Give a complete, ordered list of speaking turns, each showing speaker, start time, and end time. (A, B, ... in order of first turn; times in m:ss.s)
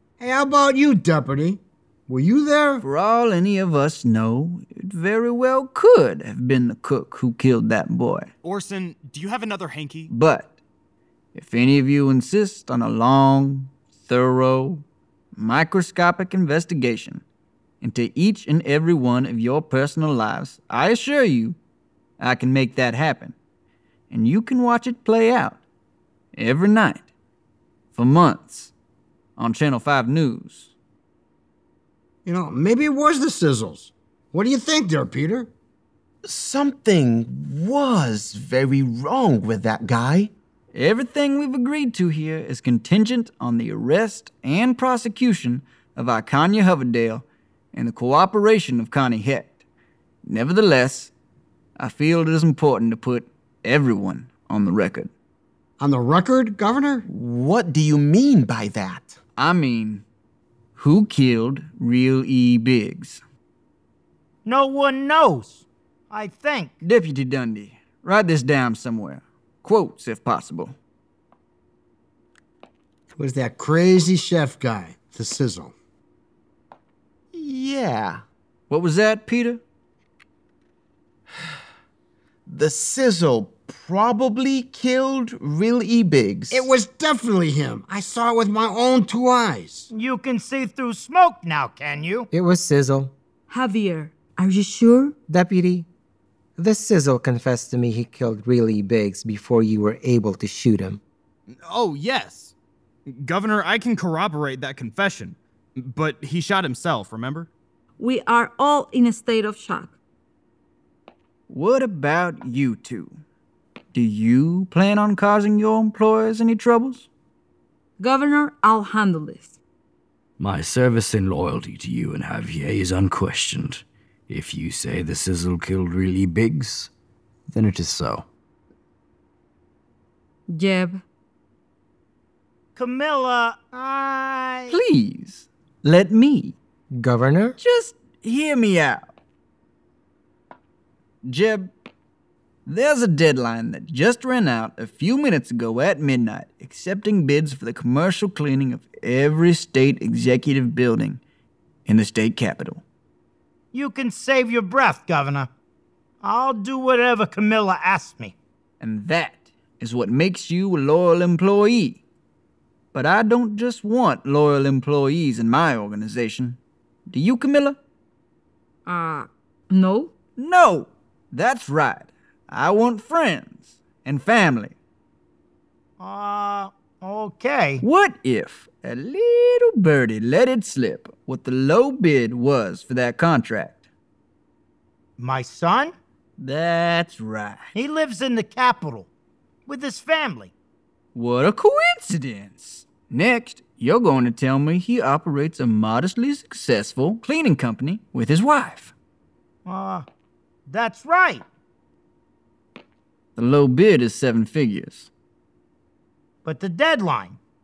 0:00.2-0:02.8 A
0:02.8-0:08.3 B
0:08.4-0:10.1 C
0:10.1-0:10.5 B
0:11.3-0:14.8 B
0:15.3-0:17.2 B
0:17.8-0:21.6 B
0:22.2-0:23.3 B
0:24.1-0:25.6 B
0:26.3-0:27.0 B
0:27.9-0:28.7 B
0:29.4-0:30.7 B
0:32.2-0:35.5 A
0:36.2-0:40.3 D
0:40.7-0:49.6 B
0:50.2-0:51.1 B
0:51.8-0:55.1 B
0:55.8-0:57.0 A
0:57.1-0:59.2 D
0:59.4-1:00.0 B
1:00.7-1:03.2 B
1:04.4-1:06.7 E
1:06.8-1:10.7 B
1:13.1-1:15.7 A
1:17.3-1:18.2 D
1:18.7-1:19.6 B
1:22.5-1:26.7 D
1:26.5-1:29.9 A
1:29.9-1:32.3 E
1:32.3-1:33.1 F
1:33.5-1:35.1 G
1:35.3-1:35.9 F
1:36.6-1:41.0 F
1:41.5-1:42.5 C
1:43.0-1:47.5 C
1:48.0-1:49.9 G
1:51.5-1:53.2 B
1:53.9-1:57.1 B
1:58.0-1:59.5 G
2:00.4-2:06.9 H
2:07.5-2:08.2 H
2:10.5-2:11.0 G
2:12.8-2:14.7 E
2:14.7-2:16.5 B
2:16.9-2:17.6 F
2:17.6-2:19.0 B
2:21.2-2:21.7 B
2:22.6-2:31.2 B
2:31.8-2:32.8 B
2:33.7-2:35.5 E
2:36.2-2:38.3 E
2:38.8-2:42.0 B
2:42.9-2:46.6 B
2:47.1-2:47.8 B
2:48.8-2:50.1 G
2:50.4-2:54.7 B
2:56.0-2:57.8 E
2:57.8-3:03.8 B
3:05.2-3:05.9 E
3:06.4-3:07.7 B
3:07.7-3:09.1 E
3:09.7-3:10.5 E
3:11.1-3:18.9 B
3:19.6-3:20.0 E
3:20.7-3:21.4 E
3:23.4-3:25.1 B
3:26.4-3:27.4 E